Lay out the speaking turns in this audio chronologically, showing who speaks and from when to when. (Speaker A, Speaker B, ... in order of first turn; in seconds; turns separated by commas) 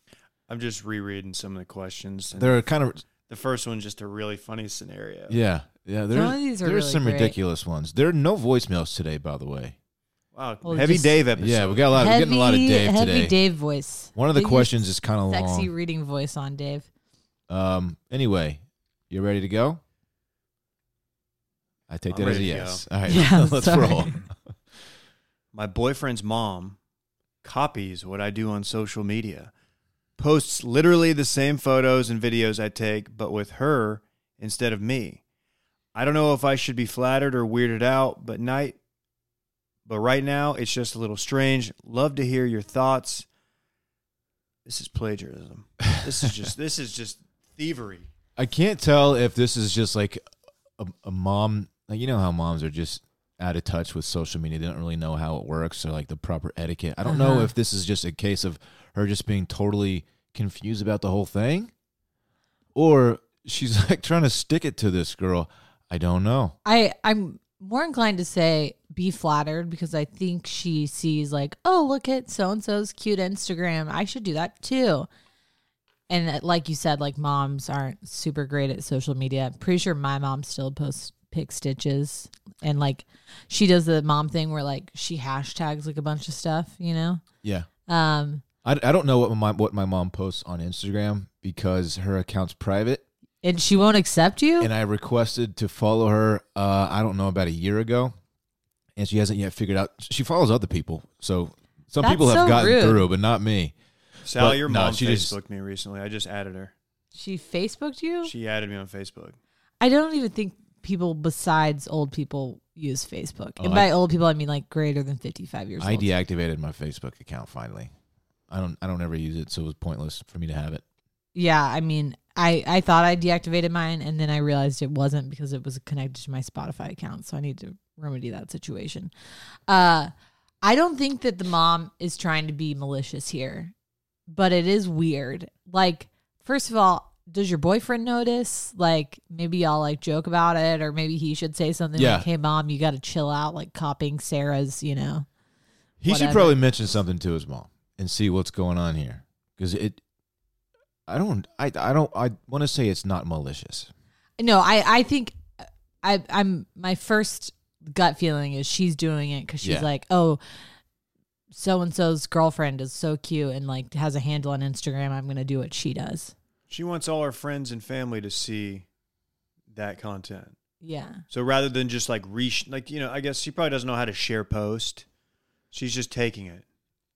Speaker A: 0.5-2.6, Speaker B: 2.4-3.0, Speaker A: 3.3-5.4, Speaker B: 5.3-9.8, Speaker C: 6.1-7.4, Speaker A: 10.3-11.9, Speaker C: 10.7-11.2, Speaker B: 11.3-13.3, Speaker C: 11.9-16.9, Speaker B: 14.2-15.7, Speaker B: 17.5-19.8, Speaker B: 21.9-24.2, Speaker A: 22.1-22.9, Speaker C: 23.1-24.1, Speaker A: 25.5-26.8, Speaker A: 27.4-29.5, Speaker A: 30.2-35.2, Speaker A: 36.0-38.8, Speaker A: 39.9-43.3, Speaker A: 44.7-48.1, Speaker B: 48.4-50.2, Speaker B: 50.8-61.7, Speaker C: 57.0-57.5, Speaker B: 62.8-66.5, Speaker C: 66.7-75.1, Speaker C: 76.1-87.2, Speaker B: 87.4-87.7, Speaker C: 87.9-88.4, Speaker B: 88.6-93.0, Speaker C: 93.4-94.7, Speaker B: 94.6-98.1, Speaker B: 99.0-103.8, Speaker C: 102.0-103.0, Speaker A: 104.2-106.7, Speaker B: 104.4-105.3, Speaker C: 107.1-108.3, Speaker A: 108.2-109.4, Speaker C: 109.8-116.1, Speaker B: 113.6-113.9, Speaker B: 115.8-117.9, Speaker B: 118.5-120.8, Speaker C: 121.3-129.1, Speaker C: 129.7-130.1, Speaker C: 130.6-133.7, Speaker C: 134.3-145.3, Speaker B: 142.0-142.3, Speaker B: 146.0-150.0, Speaker C: 146.1-146.6, Speaker B: 151.1-153.9, Speaker C: 154.4-155.4, Speaker C: 156.0-160.4, Speaker C: 161.5-166.3, Speaker A: 166.7-168.9, Speaker A: 169.7-170.6, Speaker C: 170.8-171.2, Speaker A: 171.3-175.1, Speaker A: 175.7-176.7